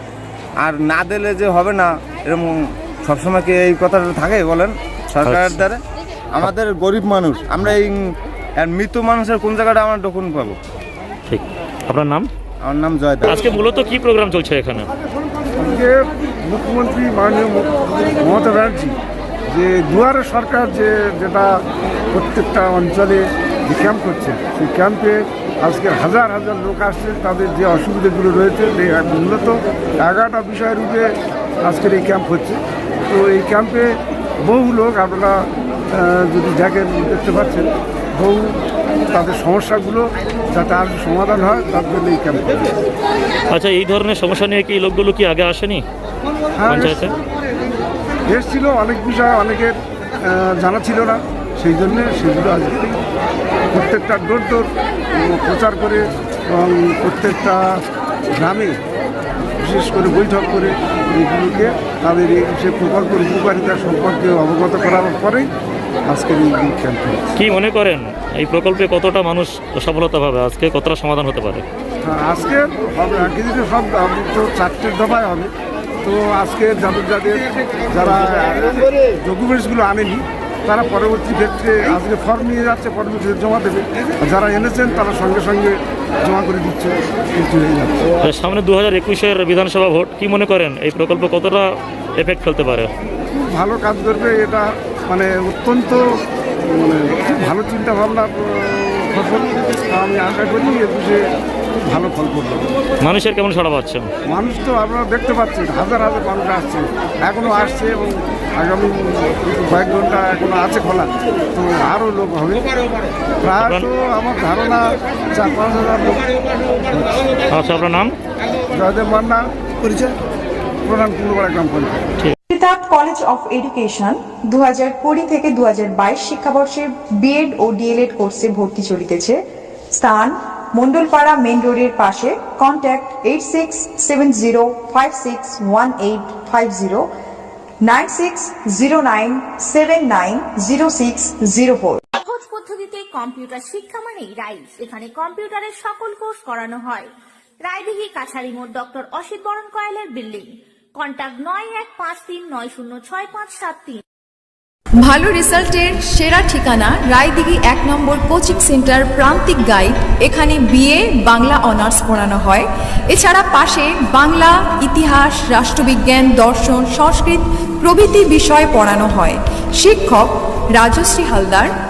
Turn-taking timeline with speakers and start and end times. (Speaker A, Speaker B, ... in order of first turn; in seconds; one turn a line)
Speaker A: 0.6-5.8
Speaker B: 5.2-5.6
Speaker A: 6.3-10.6
Speaker B: 11.3-12.3
Speaker A: 12.6-13.4
Speaker B: 13.2-14.9
Speaker C: 15.6-18.9
Speaker C: 19.5-21.5
Speaker C: 22.1-33.9
Speaker C: 34.4-38.6
Speaker C: 39.1-42.8
Speaker B: 43.5-45.8
Speaker C: 46.6-47.1
Speaker B: 46.6-47.1
Speaker C: 48.3-49.7
Speaker C: 50.3-53.0
Speaker C: 53.7-57.8
Speaker C: 58.4-58.8
Speaker C: 59.6-65.5
Speaker C: 66.1-67.3
Speaker B: 67.3-71.6
Speaker C: 72.0-75.5
Speaker C: 76.0-88.1
Speaker B: 88.2-91.7
Speaker B: 92.2-92.9
Speaker C: 93.3-96.0
Speaker C: 96.6-101.2
Speaker C: 101.8-102.7
Speaker B: 103.0-104.1
Speaker C: 104.3-112.6
Speaker C: 113.4-116.3
Speaker B: 113.5-113.9
Speaker C: 116.8-117.2
Speaker B: 117.5-118.1
Speaker C: 118.7-119.4
Speaker C: 120.8-122.0
Speaker D: 122.5-129.4
Speaker D: 129.9-137.1
Speaker D: 137.8-142.0
Speaker E: 142.1-154.0
Speaker F: 155.0-162.6
Speaker D: 155.2-155.5
Speaker D: 156.7-159.8
Speaker D: 160.4-162.6
Speaker F: 163.1-167.3
Speaker D: 165.0-167.4
Speaker F: 167.9-169.2
Speaker D: 168.4-169.3
Speaker F: 169.8-170.2
Speaker D: 169.9-170.2
Speaker F: 170.8-171.7
Speaker D: 170.9-171.7